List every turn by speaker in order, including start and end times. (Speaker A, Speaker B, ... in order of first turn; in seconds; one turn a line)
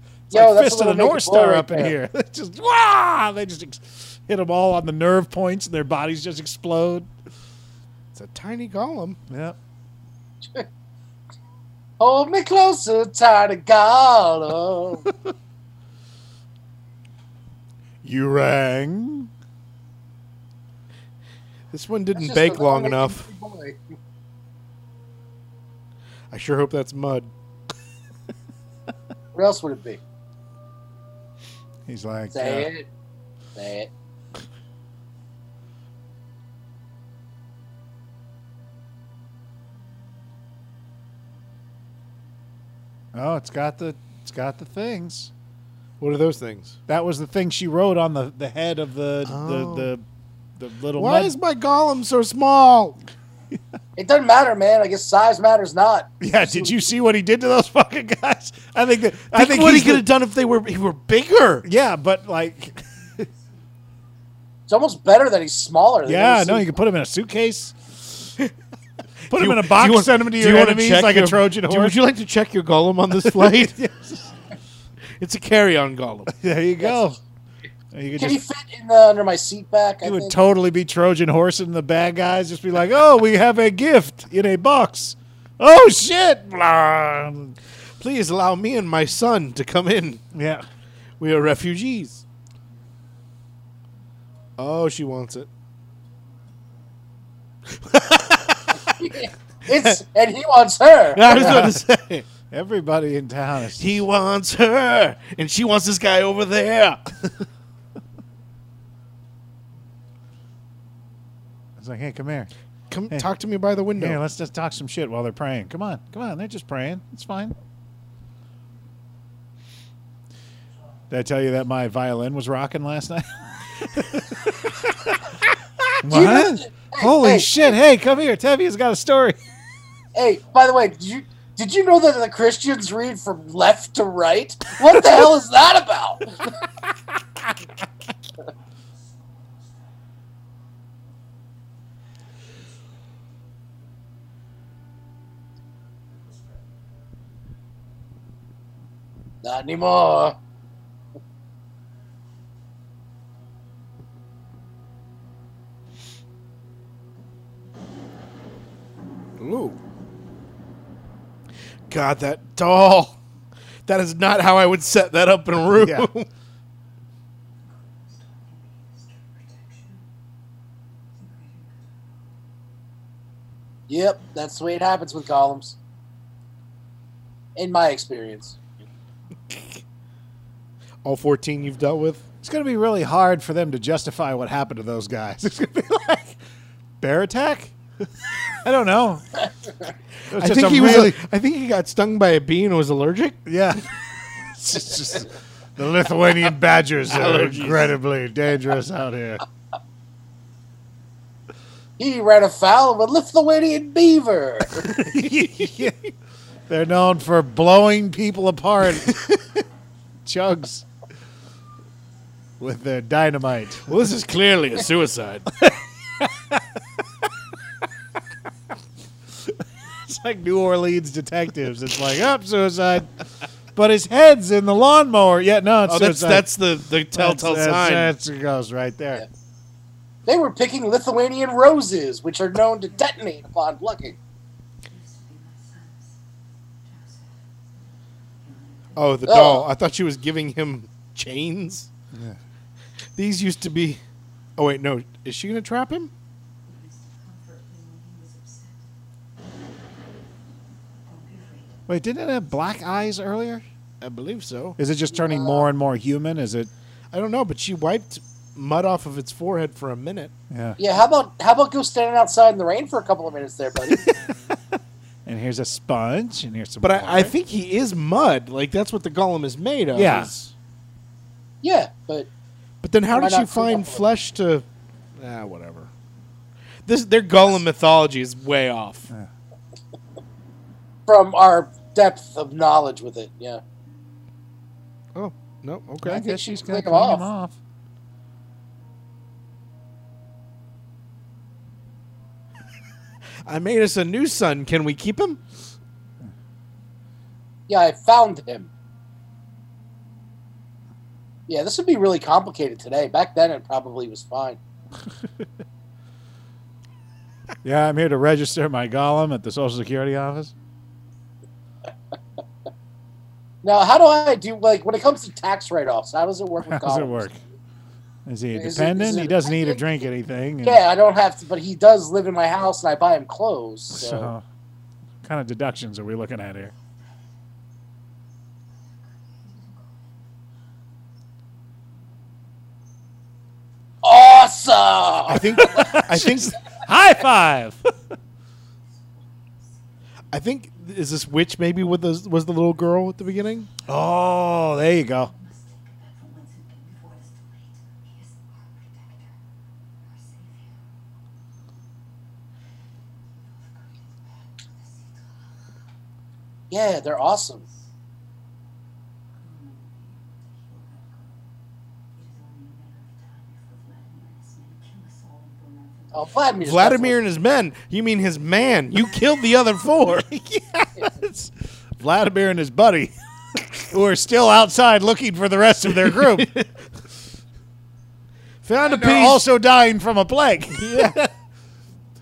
Speaker A: 0.3-1.9
Speaker B: 0.3-7.1
Speaker C: 8.1-9.2
Speaker B: 9.3-9.6
Speaker A: 12.0-15.0
Speaker B: 18.0-19.3
Speaker C: 21.7-23.3
Speaker A: 22.1-23.8
Speaker C: 26.3-27.3
Speaker A: 29.3-30.0
Speaker B: 31.9-32.7
Speaker A: 32.3-32.9
Speaker A: 33.5-33.9
Speaker B: 43.1-45.3
Speaker C: 46.0-46.7
Speaker B: 46.9-50.0
Speaker C: 49.2-49.9
Speaker B: 50.6-51.3
Speaker C: 51.0-53.0
Speaker A: 54.0-56.7
Speaker B: 56.2-60.0
Speaker C: 59.3-61.6
Speaker B: 61.6-62.8
Speaker D: 62.9-63.6
Speaker A: 64.7-66.8
Speaker B: 66.0-67.8
Speaker B: 69.3-72.0
Speaker C: 69.3-73.7
Speaker B: 73.2-74.3
Speaker C: 75.2-76.3
Speaker B: 76.3-77.2
Speaker B: 77.9-78.4
Speaker A: 78.2-80.4
Speaker B: 80.0-87.5
Speaker C: 88.0-90.2
Speaker B: 90.3-90.6
Speaker C: 91.2-92.2
Speaker C: 94.6-95.5
Speaker C: 97.7-99.0
Speaker A: 99.0-101.7
Speaker C: 101.1-102.2
Speaker B: 101.3-101.8
Speaker B: 102.5-104.0
Speaker C: 103.8-107.4
Speaker B: 111.8-112.5
Speaker C: 112.9-114.2
Speaker B: 114.0-117.5
Speaker B: 121.1-123.3
Speaker B: 123.9-125.2
Speaker B: 126.0-129.4
Speaker A: 126.1-127.7
Speaker A: 130.1-136.4
Speaker A: 149.4-150.3
Speaker C: 159.4-159.8
Speaker C: 161.9-163.2
Speaker C: 163.8-166.3
Speaker B: 165.7-166.1
Speaker D: 167.6-170.0
Speaker D: 171.1-172.1
Speaker A: 173.9-175.8
Speaker A: 177.6-178.6
Speaker C: 181.0-182.2
Speaker B: 182.4-186.4
Speaker B: 187.0-187.7
Speaker B: 188.6-189.2
Speaker C: 190.2-193.4
Speaker B: 190.3-191.2
Speaker B: 193.4-193.8
Speaker B: 194.5-199.4
Speaker C: 197.1-197.9
Speaker A: 202.0-204.9
Speaker B: 204.8-206.0
Speaker B: 206.7-209.2
Speaker B: 210.2-210.8
Speaker B: 212.6-213.9
Speaker C: 213.8-215.4
Speaker B: 215.6-216.6
Speaker B: 220.1-223.1
Speaker B: 223.7-226.5
Speaker C: 225.8-228.1
Speaker B: 227.1-229.2
Speaker A: 230.2-234.2
Speaker D: 234.8-236.2
Speaker D: 236.8-237.8
Speaker D: 238.4-239.1
Speaker C: 238.9-241.9
Speaker A: 239.2-239.7
Speaker C: 243.2-244.0
Speaker C: 244.6-246.1
Speaker D: 246.6-248.8
Speaker D: 251.0-251.8
Speaker B: 251.9-253.6
Speaker C: 254.0-254.8
Speaker B: 254.8-256.7
Speaker A: 255.1-255.7
Speaker C: 257.1-260.3
Speaker B: 260.5-260.8
Speaker A: 260.8-264.1
Speaker B: 265.2-267.3
Speaker C: 266.8-270.3
Speaker B: 269.9-270.5
Speaker A: 271.6-272.3
Speaker C: 272.8-275.9
Speaker A: 273.1-274.0
Speaker C: 276.8-279.1
Speaker A: 281.1-283.6
Speaker C: 285.1-286.3
Speaker B: 286.0-287.6
Speaker A: 286.2-287.2
Speaker C: 293.4-295.4
Speaker A: 297.7-298.7
Speaker A: 301.5-304.6
Speaker B: 307.6-310.5
Speaker A: 313.6-317.3
Speaker B: 316.6-317.4
Speaker B: 318.2-320.8
Speaker A: 318.5-319.8
Speaker A: 320.6-324.3
Speaker B: 323.9-324.4
Speaker B: 325.2-326.7
Speaker D: 328.8-330.2
Speaker A: 334.0-335.9
Speaker C: 335.3-336.6
Speaker B: 335.3-337.8
Speaker C: 340.3-343.7
Speaker B: 343.9-345.3
Speaker D: 345.3-349.4
Speaker D: 350.0-350.8
Speaker D: 353.3-355.7
Speaker A: 356.7-357.6
Speaker D: 357.1-357.9
Speaker D: 359.4-361.4
Speaker D: 362.1-366.5
Speaker A: 366.1-367.1
Speaker C: 366.6-370.2
Speaker B: 370.3-373.1
Speaker B: 373.8-376.5
Speaker C: 375.9-376.7
Speaker C: 378.6-379.4
Speaker B: 378.8-381.3
Speaker C: 380.7-381.2